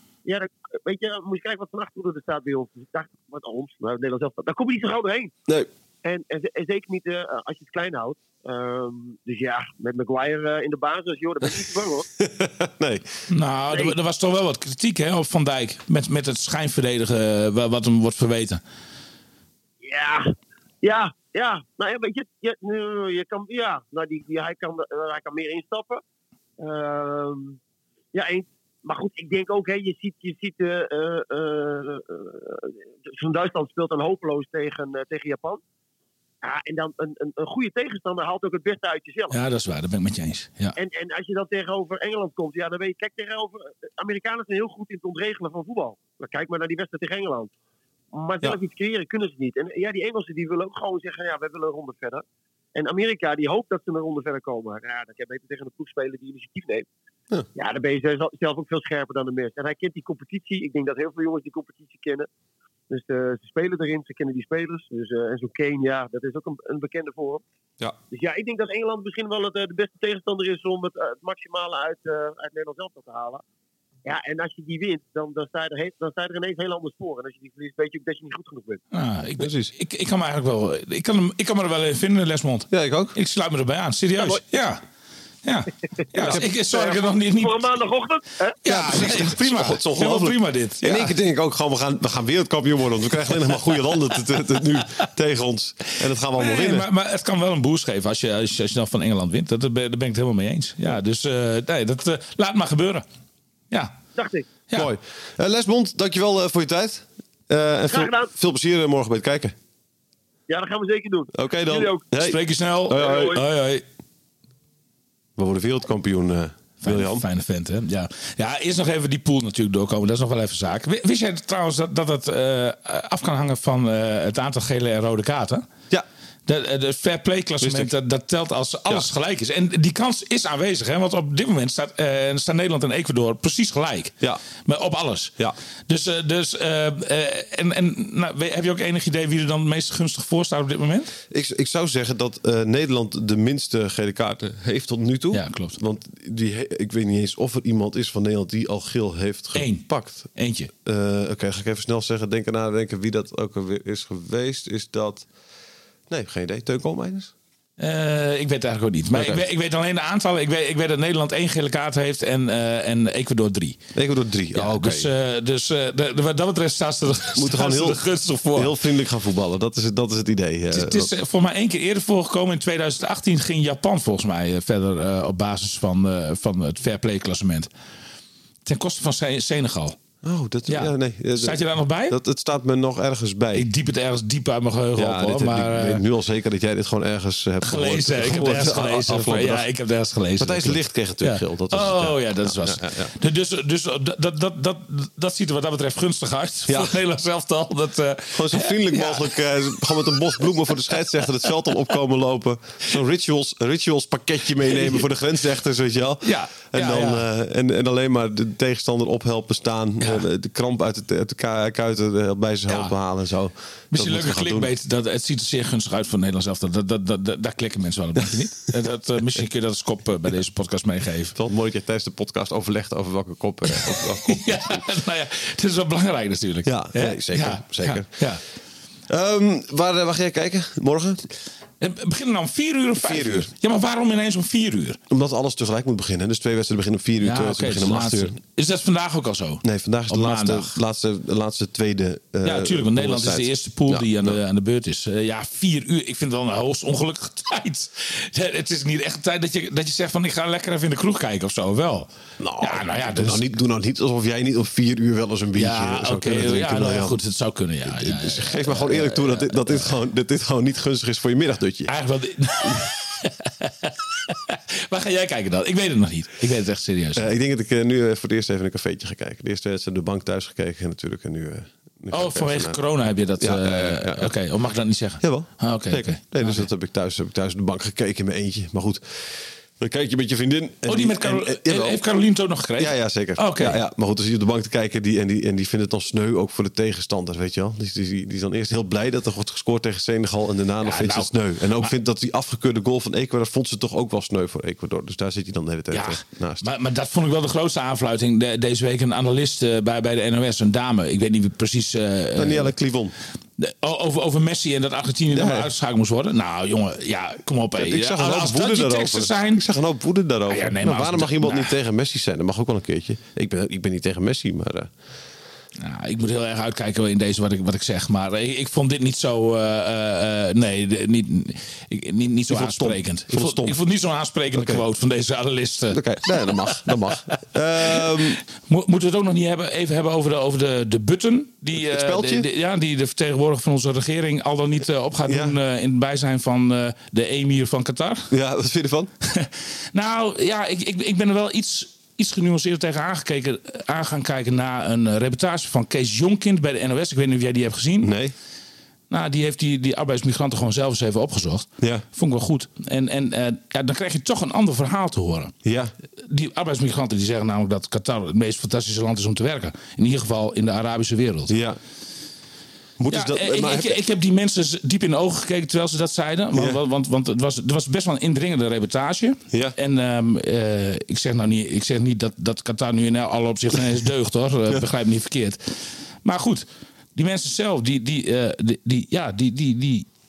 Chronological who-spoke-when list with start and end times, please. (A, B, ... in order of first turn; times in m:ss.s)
0:00.2-0:05.3 A
0:06.0-0:12.1 A
0:12.2-0:13.1 B
0:13.3-0:18.6 C
0:19.8-0:26.0 A
0:26.6-0:27.6 A
0:28.1-0:35.6 A
0:36.4-0:39.3 A
0:39.3-0:40.8 C
0:40.8-0:47.5 A
0:48.1-0:52.2 A
0:52.7-0:56.8 A
0:57.5-1:02.3 A
1:02.9-1:07.4 A
1:08.1-1:13.4 A
1:14.0-1:18.8 A
1:18.9-1:24.8 C
1:19.4-1:19.7 B
1:22.7-1:23.2 B
1:25.4-1:27.8 C
1:26.2-1:26.4 B
1:26.2-1:29.2 A
1:28.6-1:31.1 C
1:28.6-1:36.8 B
1:36.4-1:43.0 C
1:44.2-1:44.5 A
1:44.7-1:49.5 B
1:47.9-1:48.3 A
1:50.5-1:52.0 A
1:51.3-1:53.4 B
1:52.2-1:53.8 C
1:52.9-1:53.4 A
1:55.4-1:57.2 B
1:56.8-2:05.7 C
2:06.5-2:15.3 C
2:07.6-2:07.9 B
2:15.9-2:21.1 C
2:21.3-2:30.3 B
2:25.3-2:25.8 C
2:29.5-2:30.7 C
2:30.8-2:35.3 B
2:36.1-2:37.3 B
2:37.8-2:43.8 C
2:39.1-2:39.4 B
2:43.9-2:45.1 B
2:44.5-2:48.7 C
2:47.3-2:48.0 B
2:48.5-2:51.1 B
2:50.7-2:57.7 C
2:58.6-3:00.0 C
3:00.2-3:03.7 B
3:00.7-3:02.2 C
3:03.5-3:06.0 C
3:04.9-3:09.6 B
3:07.6-3:21.5 C
3:10.4-3:13.1 B
3:16.7-3:17.0 B
3:18.3-3:34.7 B
3:24.6-3:25.0 C
3:26.2-3:27.2 C
3:30.0-3:30.2 C
3:32.7-3:32.9 C
3:33.9-3:41.4 C
3:41.4-3:44.8 B
3:43.7-3:48.4 C
3:46.6-3:48.1 B
3:49.1-3:51.3 B
3:51.8-3:55.0 C
3:53.0-3:53.5 B
3:55.1-3:58.4 B
3:57.2-4:00.8 C
3:59.6-4:04.4 B
4:02.4-4:13.5 C
4:12.4-4:17.2 B
4:15.5-4:19.9 C
4:17.8-4:21.9 B
4:21.9-4:27.3 C
4:27.2-4:32.8 B
4:32.1-4:36.7 C
4:33.4-4:34.3 B
4:35.2-4:42.0 B
4:40.9-4:43.8 C
4:42.8-4:56.7 B
4:50.8-4:51.9 C
4:55.9-5:02.7 C
5:02.3-5:03.1 B
5:03.6-5:09.6 C
5:05.3-5:05.7 B
5:07.8-5:14.9 B
5:10.5-5:11.8 C
5:15.8-5:27.0 C
5:22.5-5:23.8 B
5:24.5-5:24.8 B
5:25.9-5:28.4 B
5:28.7-5:38.3 C
5:31.8-5:32.5 B
5:35.2-5:35.6 B
5:38.3-5:39.1 B
5:39.2-5:48.1 C
5:48.0-5:48.3 B
5:49.1-5:55.5 C
5:55.6-5:55.9 B
5:56.2-6:01.5 C
6:01.5-6:01.8 B
6:03.0-6:04.0 B
6:03.1-6:16.6 C
6:06.5-6:06.8 B
6:17.2-6:20.1 C